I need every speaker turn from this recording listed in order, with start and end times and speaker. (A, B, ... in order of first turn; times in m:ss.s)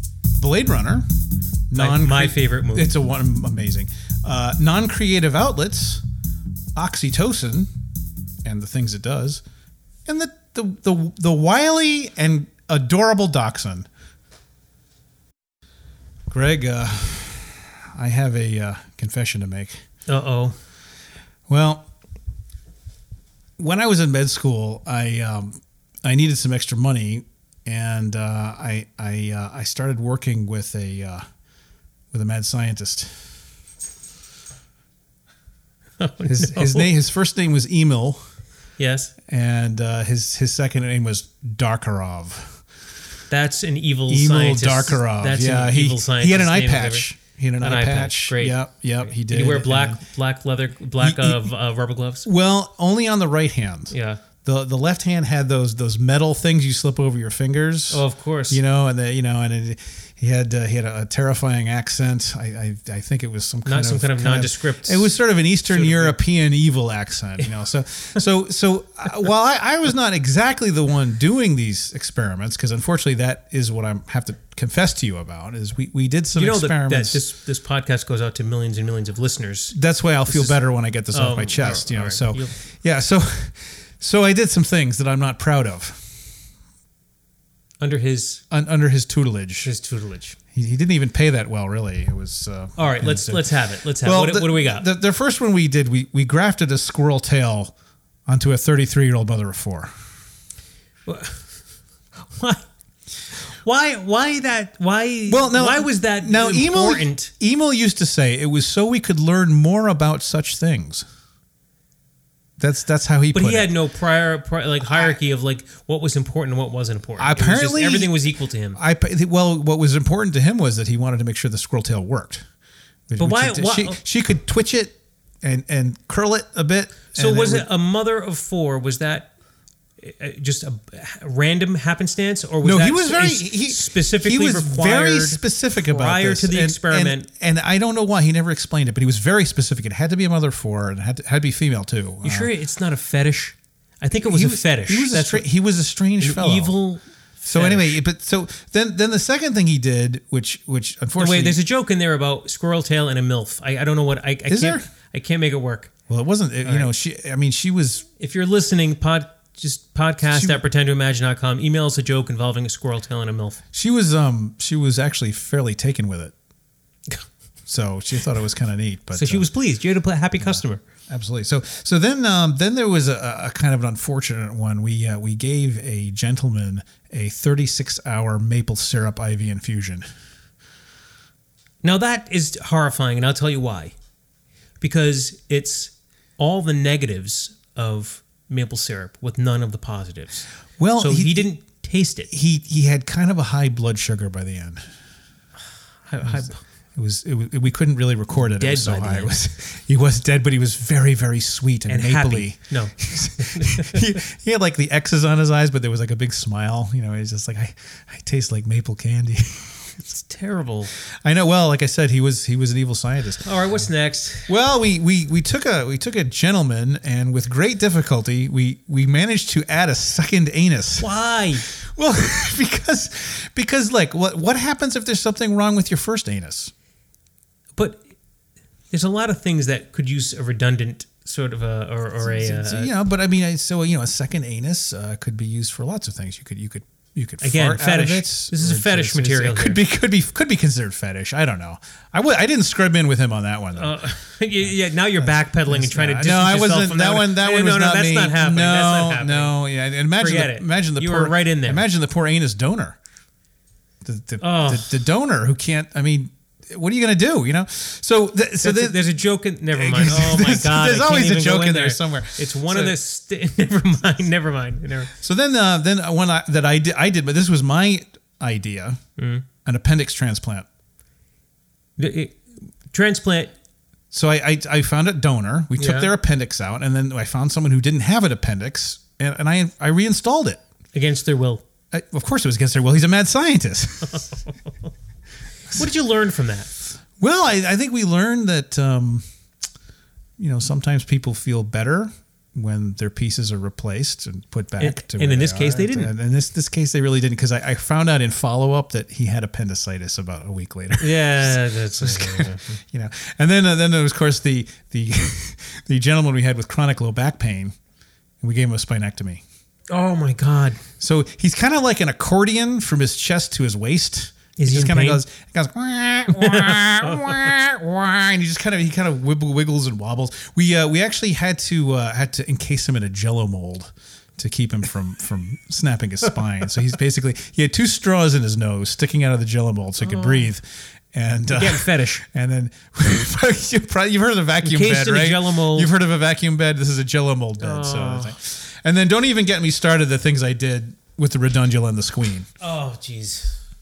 0:00.3-0:01.1 A
0:01.7-0:06.0 A
0:01.7-0:02.9 B
0:06.8-0:07.7 A
0:08.4-0:09.4 A
0:10.0-0:13.9 A
0:16.3-0:19.8 A
0:20.1-0:20.6 B
0:21.5-0:21.9 A
0:23.6-0:31.2 A
0:32.1-0:33.3 A
0:36.0-0:36.9 B
0:36.3-0:38.2 A
0:38.8-0:39.1 B
0:39.3-0:42.6 A
0:43.3-0:47.1 B
0:44.1-0:50.0 A
0:47.6-0:52.3 B
0:51.0-0:51.5 A
0:52.2-1:17.2 A
0:53.9-0:54.2 B
0:57.9-0:58.6 B
1:03.6-1:06.1 B
1:16.3-1:22.5 B
1:19.7-1:26.3 A
1:27.8-1:28.4 B
1:28.5-1:29.7 A
1:29.6-1:30.4 B
1:30.5-1:37.7 A
1:32.8-1:34.8 B
1:38.2-1:39.9 A
1:41.0-1:41.4 B
1:42.3-1:42.6 B
1:43.5-1:47.3 B
1:45.3-1:51.0 A
1:52.6-1:53.7 A
1:53.3-1:58.8 B
1:57.2-1:58.2 A
1:58.7-2:02.4 A
2:03.1-2:07.7 A
2:03.2-2:04.0 B
2:07.1-2:09.3 B
2:10.0-2:17.3 B
2:12.6-2:22.5 A
2:22.2-2:25.5 B
2:24.2-2:26.8 A
2:26.2-2:28.0 B
2:27.4-2:31.6 A
2:31.2-2:35.9 B
2:34.5-2:34.8 A
2:36.1-2:38.0 A
2:36.6-2:36.9 B
2:38.2-2:43.6 B
2:40.3-2:40.6 A
2:43.7-2:46.3 A
2:47.7-2:49.5 A
2:49.1-2:50.8 B
2:50.4-3:00.0 A
3:01.8-3:03.9 B
3:04.8-3:10.5 B
3:10.8-3:11.5 A
3:11.0-3:12.3 B
3:12.3-3:14.8 A
3:16.1-3:16.6 B
3:16.2-3:30.0 A
3:18.4-3:19.4 B
3:21.9-3:24.2 B
3:30.1-3:30.9 B
3:31.2-3:33.5 A
3:33.4-3:34.5 B
3:34.5-3:41.1 A
3:41.0-3:41.6 B
3:41.7-3:46.7 A
3:47.8-3:48.0 B
3:48.9-3:52.9 B
3:52.2-4:03.9 A
3:57.4-3:59.8 B
4:03.7-4:09.6 B
4:05.2-4:13.0 A
4:10.1-4:11.8 B
4:14.0-4:19.2 A
4:14.4-4:15.0 B
4:18.6-4:25.1 B
4:19.7-4:23.0 A
4:25.2-4:29.0 A
4:29.2-4:29.4 B
4:29.6-4:30.7 A
4:32.0-4:32.4 B
4:32.9-4:33.5 B
4:34.1-4:40.6 A
4:35.8-4:36.1 B
4:40.9-4:41.6 B
4:41.9-4:44.3 A
4:45.7-4:46.7 B
4:47.2-4:49.2 A
4:50.4-5:07.7 A
4:54.8-4:56.1 B
5:01.0-5:02.8 B
5:08.4-5:09.4 A
5:09.9-5:10.8 B
5:11.0-5:42.5 A
5:14.6-5:15.2 B
5:16.3-5:17.5 B
5:30.0-5:30.4 B
5:31.5-5:32.2 B
5:34.6-5:35.9 B
5:37.6-5:38.3 B
5:42.6-5:43.6 B